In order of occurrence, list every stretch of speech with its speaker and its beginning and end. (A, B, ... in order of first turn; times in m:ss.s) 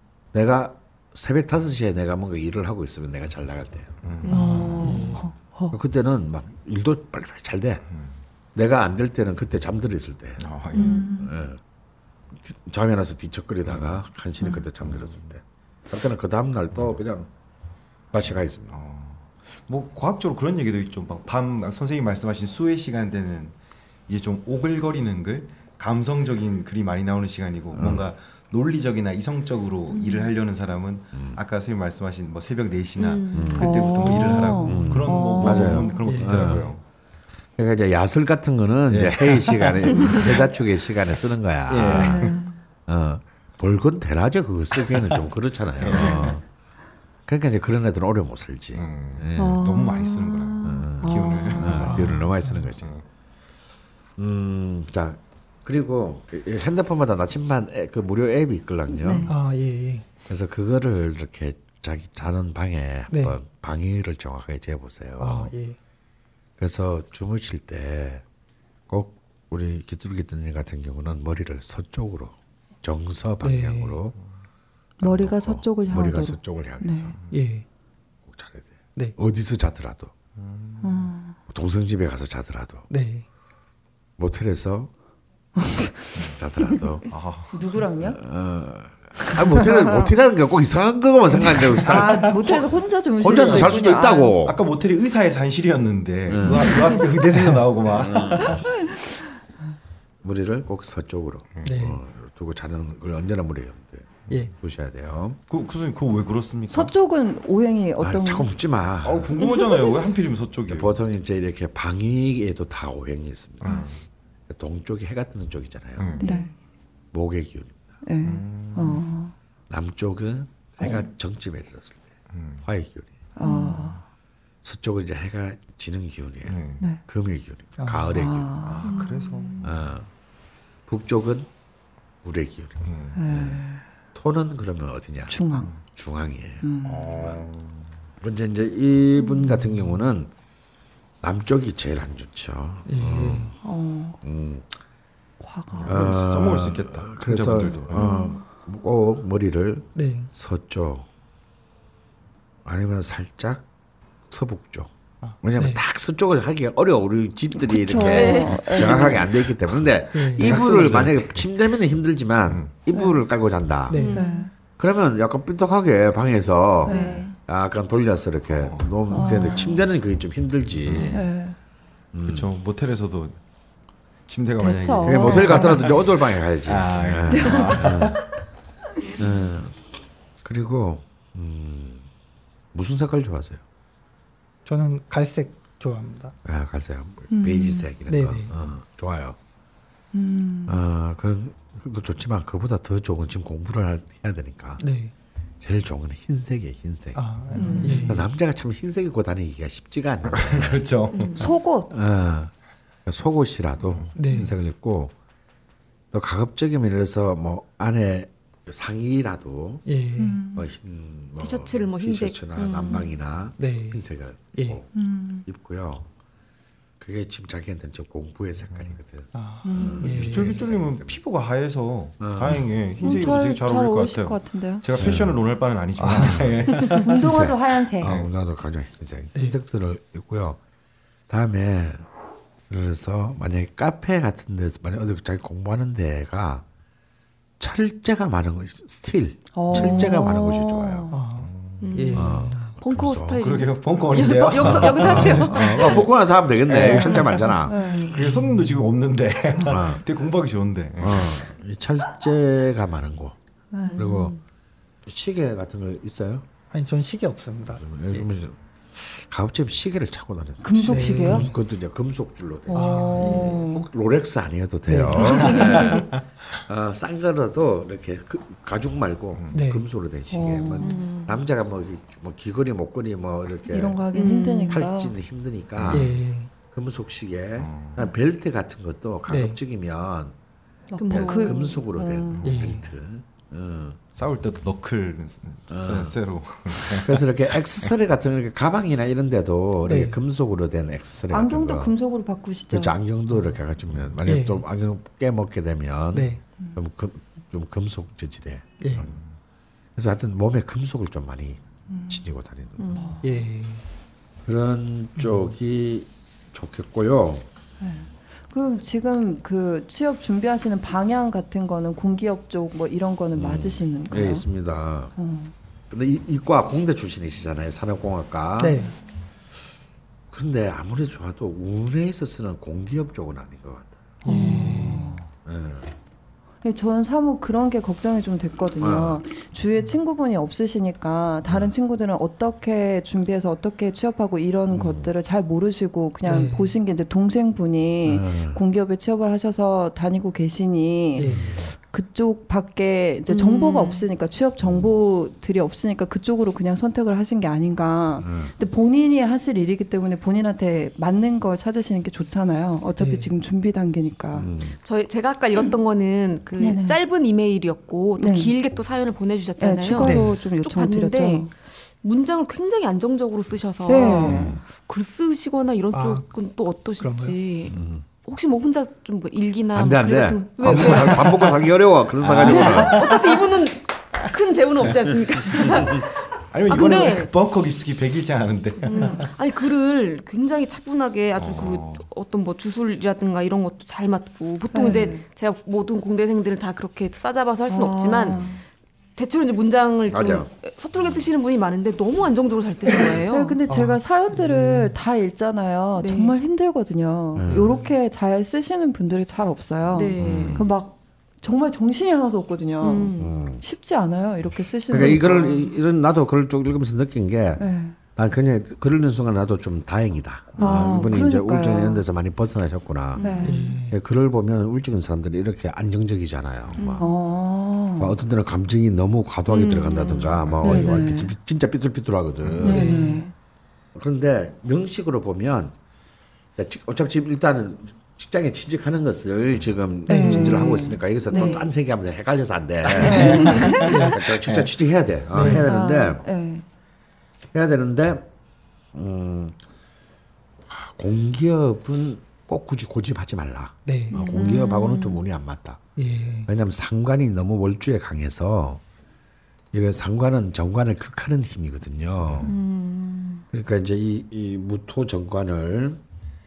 0:00.3-0:04.0 A
0:04.0-0:05.2 B
0:04.3-0:05.2 C
0:04.3-0:05.8 D
0:05.7-0:07.8 A
0:07.9-0:08.2 B
0:08.5-0:11.6 A
0:10.4-0:11.0 B
0:10.7-0:11.3 D
0:12.3-0:17.3 A
0:13.7-0:14.0 B
0:14.9-0:15.1 B
0:18.1-0:18.8 A
0:18.7-0:23.6 B
0:24.1-0:36.8 B
0:27.7-0:28.0 A
0:29.9-0:30.3 D
0:33.0-0:33.6 E
0:33.3-0:36.8 A
0:33.6-0:36.1 D
0:35.9-0:36.6 C
0:37.6-0:42.4 A
0:38.9-0:40.4 B
0:41.7-0:42.4 B
0:41.9-0:42.6 D
0:42.9-0:46.4 A
0:45.8-0:46.4 B
0:45.9-0:46.2 D
0:47.2-0:49.7 A
0:48.7-0:52.2 B
0:49.4-0:52.0 D
0:50.6-0:52.9 A
0:51.8-0:52.6 C
0:54.2-0:59.3 A
0:58.9-0:59.3 D
0:59.3-1:00.0 C
1:00.3-1:05.5 A
1:03.1-1:03.4 C
1:05.2-1:05.8 C
1:06.6-1:08.2 A
1:08.9-1:14.2 A
1:13.4-1:14.0 C
1:15.0-1:17.1 D
1:15.0-1:17.2 A
1:17.3-1:17.6 C
1:18.3-1:20.1 A
1:20.4-1:21.1 B
1:20.8-1:21.4 D
1:21.5-1:22.8 A
1:22.9-1:23.2 C
1:24.2-1:24.9 A
1:25.6-1:26.2 D
1:26.2-1:27.1 A
1:27.1-1:27.8 B
1:27.5-1:28.2 D
1:28.0-1:34.6 A
1:29.4-1:30.1 D
1:31.3-1:34.4 D
1:33.2-1:38.6 B
1:36.3-1:36.9 A
1:37.3-1:37.7 C
1:37.9-1:38.6 A
1:40.2-1:45.4 A
1:41.6-1:42.0 C
1:45.5-1:46.9 B
1:46.7-1:48.5 D
1:48.0-1:49.3 A
1:49.0-1:51.0 B
1:49.4-1:50.0 E
1:50.7-1:53.8 A
1:53.6-1:54.0 B
1:54.5-1:56.2 A
1:56.0-1:56.2 B
1:56.2-1:56.5 E
1:56.2-1:56.5 D
1:57.1-1:57.9 A
1:58.0-1:59.3 D
1:58.2-1:59.1 B
1:59.7-2:03.1 A
2:02.3-2:02.6 B
2:03.4-2:04.0 D
2:03.4-2:03.8 E
2:03.6-2:04.0 B
2:04.6-2:08.5 A
2:06.4-2:06.8 B
2:07.8-2:08.1 C
2:08.1-2:09.2 D
2:08.6-2:09.6 B
2:08.8-2:09.6 E
2:09.6-2:10.1 A
2:10.9-2:11.5 A
2:12.2-2:13.6 A
2:12.8-2:13.2 B
2:13.2-2:13.8 D
2:14.1-2:17.4 A
2:15.3-2:15.7 D
2:16.6-2:17.2 D
2:16.8-2:17.9 B
2:18.2-2:20.3 A
2:19.2-2:19.5 E
2:21.2-2:23.5 A
2:22.8-2:23.5 C
2:23.6-2:24.2 D
2:24.2-2:24.7 A
2:25.4-2:26.0 D
2:25.7-2:28.1 B
2:25.8-2:31.1 A
2:27.9-2:28.4 D
2:29.9-2:30.3 C
2:32.6-2:33.6 A
2:34.3-2:34.9 A
2:35.2-2:35.8 C
2:35.4-2:44.0 A
2:37.6-2:39.3 D
2:38.0-2:39.1 E
2:40.1-2:41.0 C
2:40.4-2:41.4 B
2:42.5-2:42.8 B
2:43.9-2:44.2 C
2:43.9-2:44.4 E
2:44.1-2:44.5 D
2:44.8-2:51.2 A
2:46.8-2:47.3 D
2:46.8-2:47.4 E
2:48.6-2:49.3 B
2:49.1-2:49.8 D
2:50.8-2:51.2 B
2:51.1-2:51.6 D
2:52.1-2:52.5 A
2:52.2-2:53.4 B
2:54.3-2:56.0 B
2:54.6-2:55.9 D
2:55.0-2:58.2 A
2:56.6-2:58.2 B
2:57.3-2:57.6 D
2:59.2-2:59.8 A
3:00.4-3:02.1 A
3:02.7-3:03.6 A
3:04.6-3:06.3 C
3:06.4-3:09.4 A
3:07.3-3:07.9 D
3:08.1-3:08.5 C
3:10.2-3:10.7 C
3:10.6-3:14.8 A
3:14.8-3:15.1 C
3:15.6-3:17.2 A
3:17.1-3:18.3 C
3:17.6-3:18.0 E
3:17.6-3:18.1 B
3:17.9-3:20.8 A
3:20.3-3:21.5 B
3:21.1-3:21.5 E
3:21.4-3:21.9 D
3:21.9-3:22.5 A
3:23.0-3:25.1 A
3:24.1-3:24.5 C
3:26.1-3:29.8 A
3:29.8-3:30.4 C
3:30.2-3:30.6 D
3:30.5-3:36.1 A
3:31.4-3:33.1 E
3:33.6-3:34.8 C
3:34.9-3:35.4 D
3:37.0-3:41.2 A
3:39.3-3:40.6 C
3:39.6-3:40.1 D
3:39.8-3:47.2 B
3:42.2-3:43.2 A
3:43.0-3:45.1 D
3:45.0-3:45.4 A
3:46.0-3:46.9 C
3:46.3-3:46.5 A
3:47.0-3:48.2 D
3:47.2-3:50.6 A
3:51.3-3:52.1 A
3:52.7-3:56.6 A
3:57.6-4:01.1 A
3:59.5-4:01.2 D
4:01.1-4:02.7 C
4:01.4-4:02.1 B
4:01.8-4:06.0 E
4:02.1-4:03.4 A
4:03.4-4:06.1 B
4:04.8-4:07.9 A
4:06.7-4:07.5 B
4:07.0-4:08.3 D
4:08.0-4:11.5 B
4:08.2-4:08.8 C
4:09.7-4:10.0 A
4:11.0-4:13.4 A
4:13.7-4:14.2 D
4:13.8-4:14.4 E
4:13.9-4:14.3 A
4:15.0-4:16.4 A
4:16.7-4:18.2 C
4:17.8-4:34.0 A
4:20.6-4:21.5 D
4:20.9-4:21.5 C
4:22.7-4:23.8 D
4:22.7-4:23.6 C
4:24.9-4:25.3 C
4:25.2-4:26.0 E
4:29.5-4:29.8 C
4:30.3-4:31.0 D
4:30.8-4:31.4 E
4:33.6-4:35.1 D
4:34.1-4:34.8 E
4:34.7-4:36.1 A
4:35.8-4:36.1 B
4:35.9-4:36.5 C
4:36.7-4:40.3 A
4:37.6-4:38.1 B
4:39.3-4:39.6 C
4:40.9-4:42.6 D
4:41.0-4:41.8 E
4:41.1-4:44.0 A
4:42.4-4:42.8 C
4:44.1-4:47.3 B
4:45.7-4:46.2 A
4:46.7-4:51.9 A
4:49.8-4:50.2 C
4:51.3-4:53.0 D
4:52.7-4:59.2 A
4:54.2-4:54.6 C
4:56.1-4:56.4 C
4:58.8-4:59.0 C
4:59.0-4:59.3 B
5:00.0-5:03.1 A
5:01.9-5:02.2 D
5:02.8-5:03.1 E
5:02.9-5:03.3 D
5:03.2-5:03.8 C
5:04.4-5:07.4 A
5:07.8-5:14.5 D
5:13.3-5:15.1 A
5:15.2-5:15.5 D
5:15.9-5:18.8 A
5:18.6-5:18.9 C
5:20.3-5:24.1 A
5:24.2-5:25.2 C
5:24.3-5:25.2 D
5:24.4-5:24.6 B
5:25.4-5:25.9 A
5:26.6-5:54.5 D
5:28.8-5:29.2 A
5:34.7-5:35.1 A
5:36.2-5:36.7 C
5:38.0-5:38.6 A
5:41.1-5:41.5 C
5:41.3-5:41.6 B
5:41.3-5:41.6 A
5:43.3-5:44.0 E
5:44.6-5:44.9 A
5:48.2-5:48.5 A
5:53.0-5:53.3 C
5:54.3-5:54.8 A
5:54.8-6:11.6 E
5:56.6-5:57.0 D
5:58.2-5:58.5 D
5:59.6-6:01.5 D
6:00.0-6:00.3 C
6:03.8-6:04.6 D
6:04.1-6:04.6 A
6:05.9-6:06.2 C
6:07.0-6:07.4 C
6:07.7-6:08.0 A
6:09.7-6:13.0 A
6:12.2-6:13.1 B
6:12.4-6:17.3 E
6:16.5-6:19.3 B
6:18.8-6:28.6 E
6:21.4-6:22.1 B
6:24.7-6:25.2 D
6:27.7-6:28.6 D
6:29.2-6:33.6 E
6:30.1-6:30.5 A
6:33.3-6:45.7 D
6:33.7-6:34.9 C
6:36.0-6:36.3 E
6:37.3-6:37.7 A
6:39.9-6:40.6 E
6:40.2-6:40.7 A
6:42.8-6:43.3 E
6:43.2-6:43.6 A
6:44.9-6:53.3 A
6:44.9-6:45.4 E
6:47.6-6:48.0 D
6:50.5-6:51.0 B
6:50.6-6:52.0 D
6:53.1-6:53.6 E
6:53.2-6:53.8 D
6:53.4-6:54.0 C
6:53.9-6:57.0 A
6:56.7-6:57.0 B
6:56.8-6:57.1 E
6:57.0-6:58.1 D
6:58.0-7:03.0 A
6:59.5-7:00.3 E
6:59.5-7:01.3 D
7:00.3-7:00.9 B
7:02.4-7:02.8 B
7:02.6-7:03.3 D
7:02.6-7:03.3 C
7:03.9-7:05.7 A
7:06.6-7:16.2 A
7:10.1-7:11.6 D
7:10.1-7:10.6 C
7:11.3-7:11.7 E
7:12.8-7:14.7 B
7:13.1-7:14.2 C
7:13.1-7:13.6 D
7:15.3-7:15.6 C
7:15.3-7:16.6 D
7:17.5-7:18.3 A
7:18.9-7:19.6 A
7:20.7-7:25.8 A
7:23.8-7:24.1 C
7:24.1-7:24.5 E
7:24.1-7:25.2 D
7:26.0-7:26.5 C
7:26.4-7:28.8 A
7:29.7-7:32.5 A
7:32.4-7:33.4 E
7:33.5-7:36.0 A